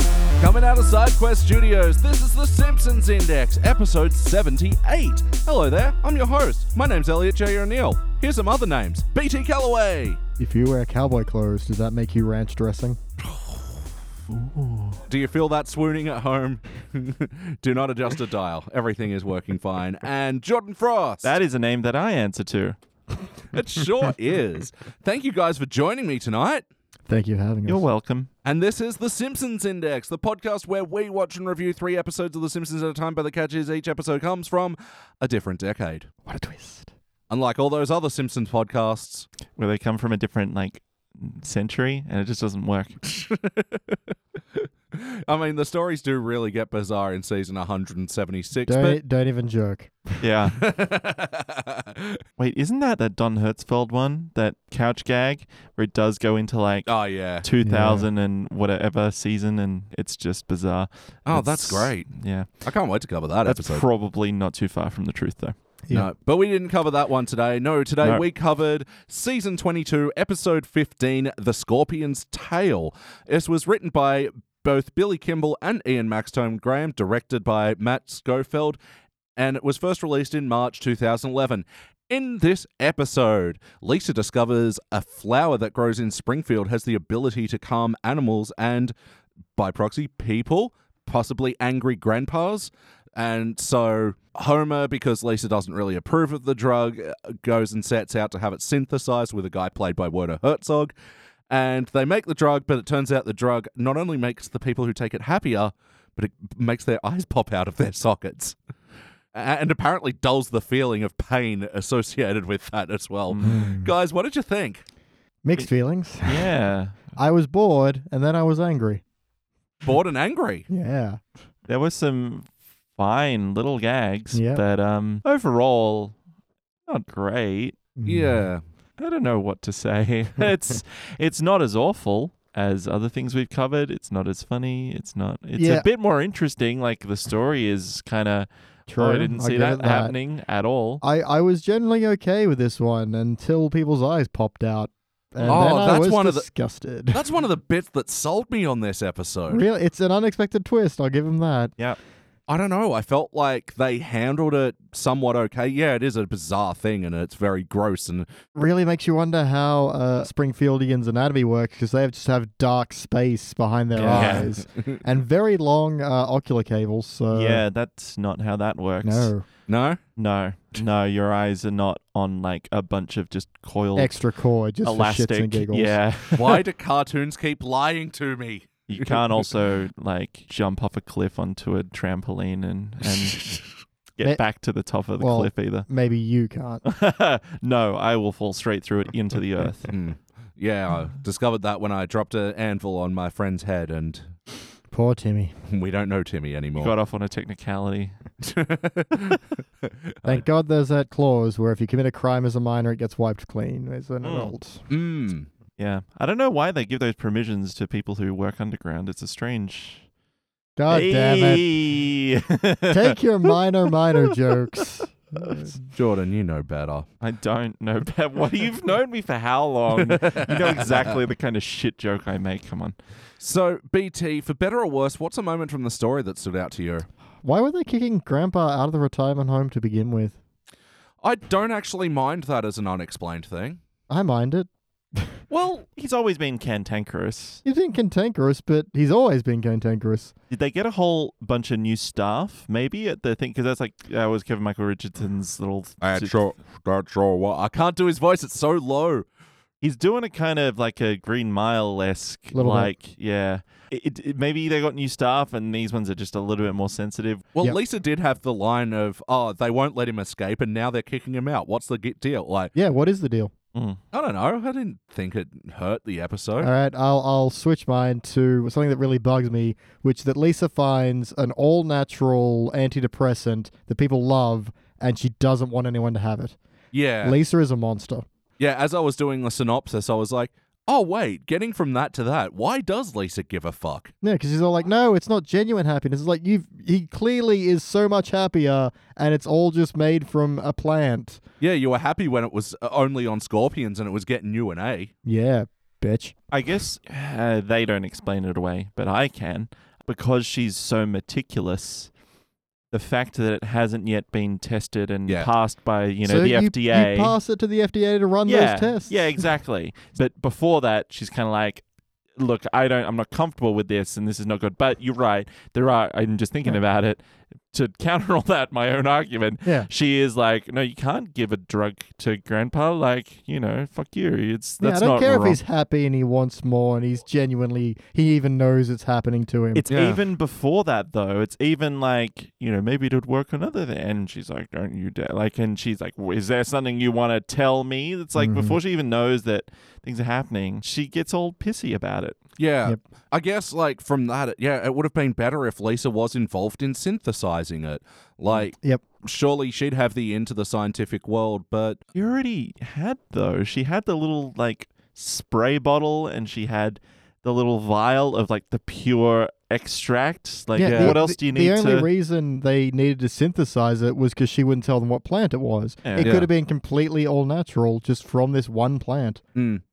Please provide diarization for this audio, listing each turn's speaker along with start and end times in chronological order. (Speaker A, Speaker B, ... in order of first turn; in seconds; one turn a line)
Speaker A: 0.4-10.2
Speaker B: 10.4-13.0
Speaker A: 13.3-13.6
Speaker C: 14.3-15.0
Speaker A: 15.1-21.3
Speaker C: 21.2-22.8
Speaker A: 23.5-26.6
Speaker B: 27.1-27.8
Speaker C: 27.7-28.3
Speaker A: 28.4-36.1
Speaker B: 36.2-36.9
Speaker A: 37.3-39.3
Speaker C: 39.5-43.0
Speaker A: 43.0-44.0
Speaker A: 44.5-49.0
Speaker B: 48.7-50.2
Speaker C: 50.2-50.6
Speaker A: 50.6-52.2
Speaker C: 52.4-56.9
Speaker A: 56.9-57.4
Speaker C: 57.4-62.5
Speaker B: 57.6-58.1
Speaker A: 61.2-62.1
Speaker A: 62.6-63.8
Speaker C: 63.5-65.5
Speaker A: 65.9-78.8
Speaker A: 79.3-88.9
Speaker A: 89.5-100.9
Speaker A: 101.5-108.5
Speaker A: 109.3-114.8
Speaker C: 113.3-113.7
Speaker B: 113.4-113.9
Speaker B: 115.4-116.5
Speaker C: 116.2-117.0
Speaker B: 117.2-119.0
Speaker A: 119.8-120.7
Speaker B: 120.7-121.2
Speaker C: 121.7-126.2
Speaker B: 124.3-124.6
Speaker C: 126.8-127.8
Speaker B: 128.0-128.4
Speaker A: 128.1-128.6
Speaker C: 129.0-141.0
Speaker B: 135.6-135.8
Speaker B: 138.9-140.1
Speaker B: 141.0-147.2
Speaker A: 145.4-146.4
Speaker A: 147.1-149.6
Speaker B: 149.5-151.7
Speaker A: 152.5-158.3
Speaker B: 158.5-167.6
Speaker C: 163.9-164.5
Speaker A: 164.1-164.6
Speaker C: 167.3-169.3
Speaker B: 169.0-169.4
Speaker A: 169.7-170.0
Speaker C: 170.2-174.2
Speaker B: 173.9-176.0
Speaker C: 174.8-176.6
Speaker A: 176.3-179.2
Speaker C: 178.9-183.6
Speaker C: 184.2-185.9
Speaker B: 185.2-186.8
Speaker C: 186.8-189.9
Speaker A: 189.9-194.3
Speaker B: 194.9-195.5
Speaker A: 195.7-196.9
Speaker C: 196.8-198.2
Speaker A: 198.4-200.4
Speaker B: 200.2-204.8
Speaker C: 204.2-204.5
Speaker A: 204.9-205.5
Speaker C: 205.8-210.0
Speaker B: 210.8-211.7
Speaker C: 210.9-213.5
Speaker B: 212.9-215.8
Speaker A: 215.9-217.1
Speaker C: 217.2-222.9
Speaker A: 219.9-221.2
Speaker A: 223.4-227.1
Speaker B: 227.4-230.4
Speaker A: 231.2-233.8
Speaker B: 234.1-235.4
Speaker A: 235.5-235.8
Speaker C: 235.9-237.6
Speaker B: 237.6-240.3
Speaker C: 240.5-246.4
Speaker A: 246.0-249.2
Speaker C: 249.8-257.4
Speaker B: 252.5-252.9
Speaker A: 257.6-262.7
Speaker B: 262.8-263.5
Speaker C: 263.7-264.0
Speaker A: 264.1-266.7
Speaker B: 266.6-276.6
Speaker A: 276.9-277.4
Speaker B: 277.2-278.2
Speaker A: 278.6-284.1
Speaker B: 284.2-291.4
Speaker A: 291.6-295.1
Speaker B: 295.2-296.3
Speaker C: 296.5-302.1
Speaker C: 302.9-307.3
Speaker B: 306.2-309.4
Speaker C: 308.4-311.8
Speaker C: 312.4-325.6
Speaker B: 324.8-329.8
Speaker C: 329.7-342.4
Speaker A: 329.9-330.2
Speaker B: 338.4-338.8
Speaker A: 342.6-352.0
Speaker B: 348.8-349.0
Speaker C: 352.1-362.1
Speaker B: 360.8-369.4
Speaker A: 360.8-361.2
Speaker C: 366.0-366.4
Speaker A: 366.2-366.5
Speaker A: 369.6-369.8